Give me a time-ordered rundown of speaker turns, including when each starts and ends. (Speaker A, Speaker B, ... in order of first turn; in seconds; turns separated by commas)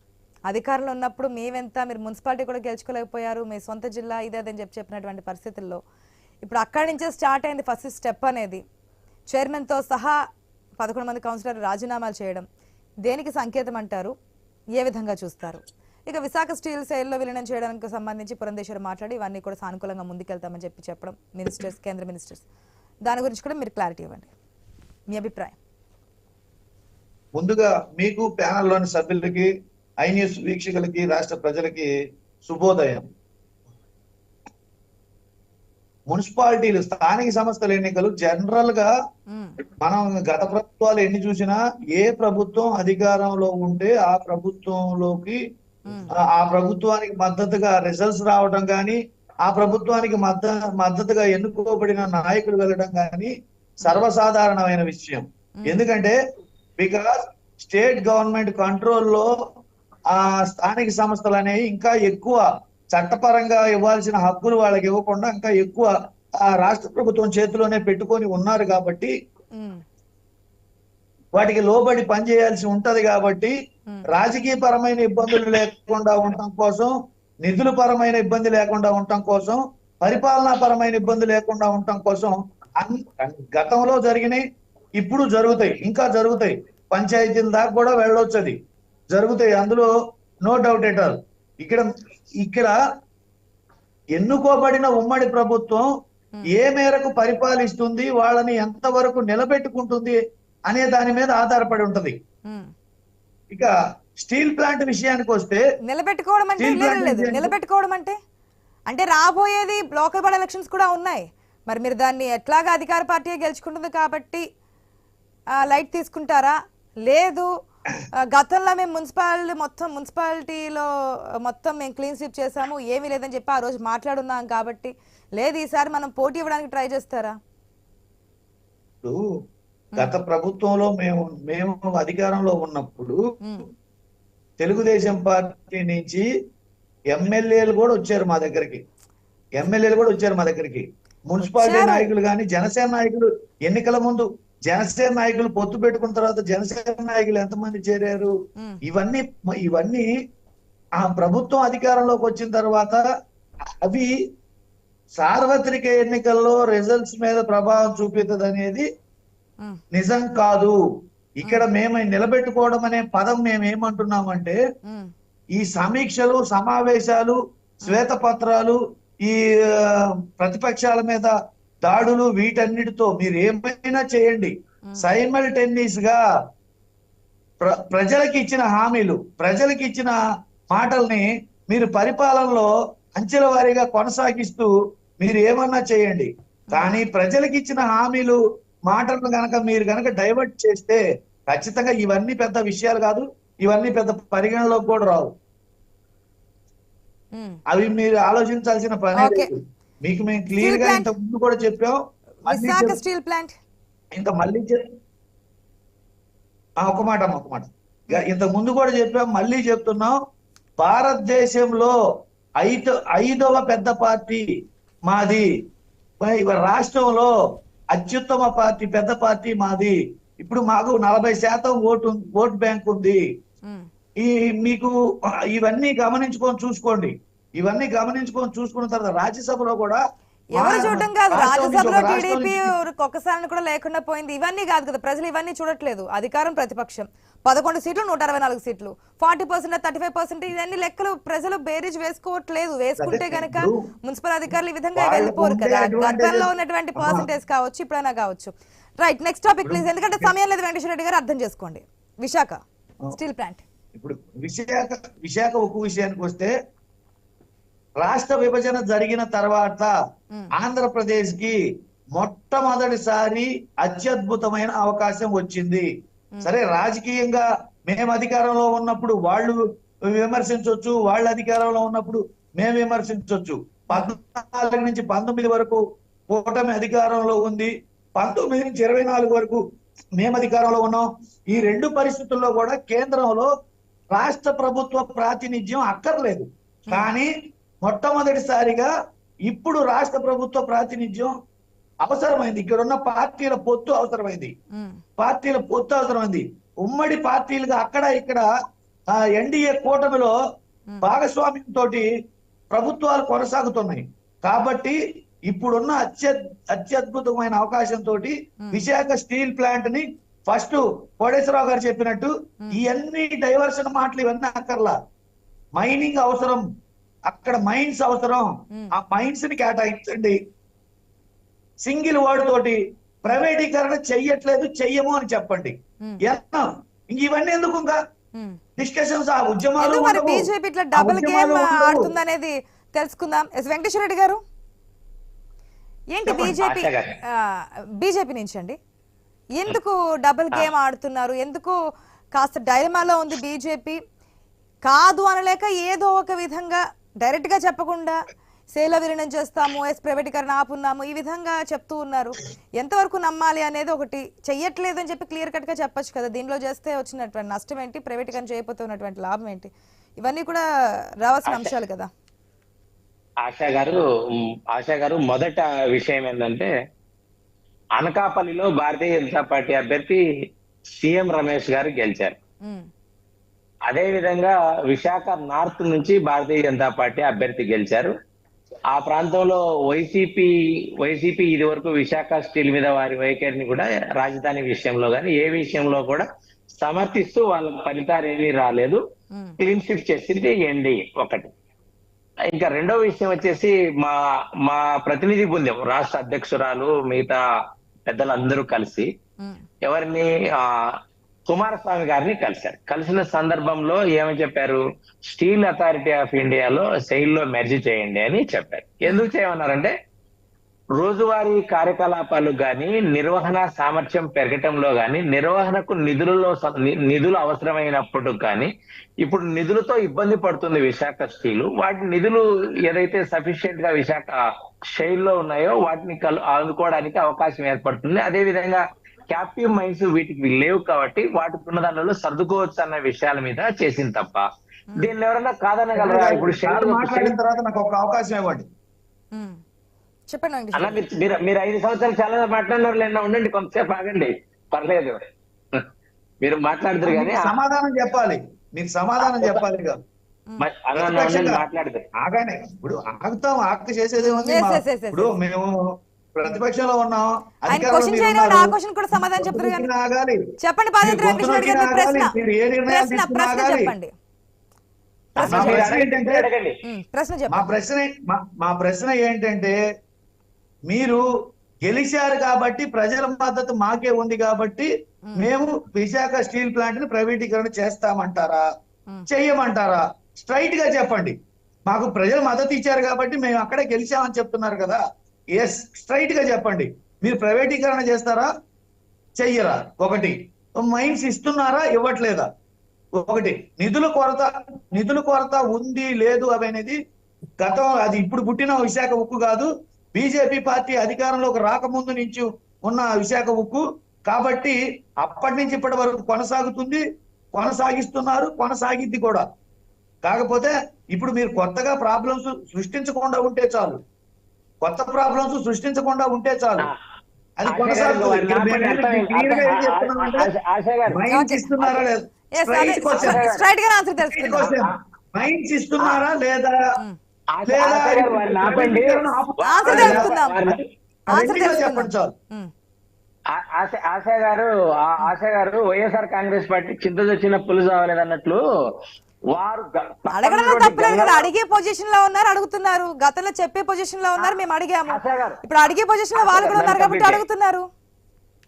Speaker A: 0.5-5.8, Speaker A: 6.4-8.6, Speaker A: 9.3-10.2, Speaker A: 10.8-12.4, Speaker A: 13.0-14.2, Speaker A: 14.8-22.4, Speaker A: 23.1-24.3, Speaker A: 25.1-25.6, Speaker B: 27.4-29.5, Speaker B: 30.0-31.9, Speaker B: 32.5-33.1, Speaker B: 36.1-38.9, Speaker B: 39.8-45.4, Speaker B: 46.2-53.3, Speaker B: 53.8-56.1, Speaker B: 56.8-59.3, Speaker B: 60.2-65.9, Speaker B: 66.5-69.1, Speaker A: 69.5-69.8, Speaker B: 71.3-73.5, Speaker B: 74.1-84.4, Speaker B: 85.0-88.5, Speaker B: 89.1-89.9, Speaker B: 90.5-91.9, Speaker B: 92.4-92.8, Speaker B: 94.2-95.9, Speaker B: 96.5-100.2, Speaker B: 100.7-102.1, Speaker B: 103.5-105.6, Speaker A: 105.9-108.2, Speaker B: 106.6-107.5, Speaker A: 108.9-114.4, Speaker A: 115.6-117.5, Speaker A: 118.3-120.9, Speaker A: 121.4-127.4, Speaker B: 130.0-133.2, Speaker B: 134.6-136.2, Speaker B: 137.1-138.8, Speaker B: 139.6-148.3, Speaker A: 141.6-142.1, Speaker B: 148.8-150.1, Speaker B: 151.0-153.0, Speaker B: 153.8-154.1, Speaker B: 155.2-158.8, Speaker B: 159.9-160.8, Speaker B: 161.4-164.6, Speaker A: 164.9-165.1, Speaker B: 165.6-171.3, Speaker B: 171.8-176.2, Speaker B: 177.6-180.2, Speaker B: 180.7-195.3, Speaker A: 186.7-186.9, Speaker B: 197.7-203.0, Speaker A: 199.2-199.5, Speaker A: 200.6-201.1, Speaker A: 202.4-203.5, Speaker B: 204.2-204.8, Speaker B: 206.8-210.2, Speaker B: 210.8-211.9, Speaker B: 212.6-214.4, Speaker B: 215.1-215.5, Speaker B: 216.2-217.3, Speaker B: 217.9-223.2, Speaker B: 224.2-224.9, Speaker B: 225.5-230.0, Speaker A: 230.6-252.6, Speaker B: 230.6-232.7, Speaker B: 243.0-243.8, Speaker B: 245.0-247.3, Speaker B: 249.7-250.3, Speaker A: 253.1-253.6, Speaker B: 254.0-256.5, Speaker B: 258.0-259.9, Speaker B: 260.6-261.6, Speaker B: 262.1-265.9, Speaker B: 266.4-269.6, Speaker B: 270.1-279.6, Speaker B: 280.2-283.5, Speaker B: 284.1-287.3, Speaker B: 287.8-288.9, Speaker B: 289.5-291.3, Speaker B: 292.0-294.5, Speaker A: 294.8-295.0, Speaker B: 295.2-298.5, Speaker B: 299.1-300.4, Speaker B: 301.0-302.1, Speaker B: 302.7-305.0, Speaker B: 305.5-314.9, Speaker A: 308.6-308.9, Speaker B: 315.8-316.6, Speaker B: 317.3-320.4, Speaker B: 321.9-328.0, Speaker B: 328.8-332.1, Speaker A: 329.8-334.4, Speaker A: 336.1-338.8, Speaker C: 336.3-337.2, Speaker A: 339.6-341.8, Speaker A: 342.4-344.0, Speaker A: 344.9-348.2, Speaker A: 348.7-360.6, Speaker A: 361.2-362.1, Speaker C: 363.4-364.0, Speaker C: 364.7-366.7, Speaker C: 368.0-370.2, Speaker C: 371.0-372.4, Speaker C: 373.9-378.1, Speaker C: 378.9-380.5, Speaker C: 381.0-386.3, Speaker C: 386.8-389.0, Speaker C: 389.6-391.5, Speaker C: 392.5-397.4, Speaker C: 398.1-399.1, Speaker C: 399.8-400.8, Speaker C: 401.5-409.9, Speaker C: 411.0-418.7, Speaker C: 419.2-424.4, Speaker C: 424.9-434.4, Speaker C: 435.0-437.4, Speaker B: 436.0-438.6, Speaker A: 439.3-439.6, Speaker A: 440.3-441.0, Speaker C: 440.8-445.2, Speaker C: 446.4-447.5, Speaker B: 447.1-450.0, Speaker C: 449.2-449.6, Speaker C: 450.6-452.0, Speaker B: 450.9-451.6, Speaker B: 452.2-455.7, Speaker A: 454.2-455.4, Speaker B: 456.4-460.4, Speaker A: 457.7-459.9, Speaker A: 460.6-462.3, Speaker B: 461.0-463.9, Speaker A: 462.9-464.1, Speaker C: 465.4-466.8, Speaker A: 465.4-465.9, Speaker B: 465.4-466.5, Speaker A: 466.8-467.6, Speaker B: 467.5-469.8, Speaker B: 470.9-471.2, Speaker B: 471.9-478.6, Speaker B: 479.3-481.3, Speaker B: 481.9-485.0, Speaker B: 485.6-488.5, Speaker B: 489.4-492.5, Speaker B: 493.2-497.0, Speaker B: 497.6-507.0, Speaker B: 507.5-509.4, Speaker B: 510.2-514.0, Speaker B: 514.8-516.9, Speaker B: 517.6-520.5, Speaker C: 517.7-521.2, Speaker B: 521.1-523.4, Speaker A: 521.3-522.1, Speaker A: 522.6-524.6, Speaker C: 523.1-523.7, Speaker B: 524.3-526.8, Speaker C: 524.6-524.9, Speaker C: 526.0-526.3, Speaker C: 527.5-530.8, Speaker B: 527.7-530.3, Speaker A: 529.6-530.6, Speaker B: 531.3-532.3, Speaker A: 531.3-532.7, Speaker C: 533.5-538.6, Speaker C: 539.5-541.5, Speaker A: 540.3-547.9, Speaker C: 544.4-545.6, Speaker C: 546.4-547.4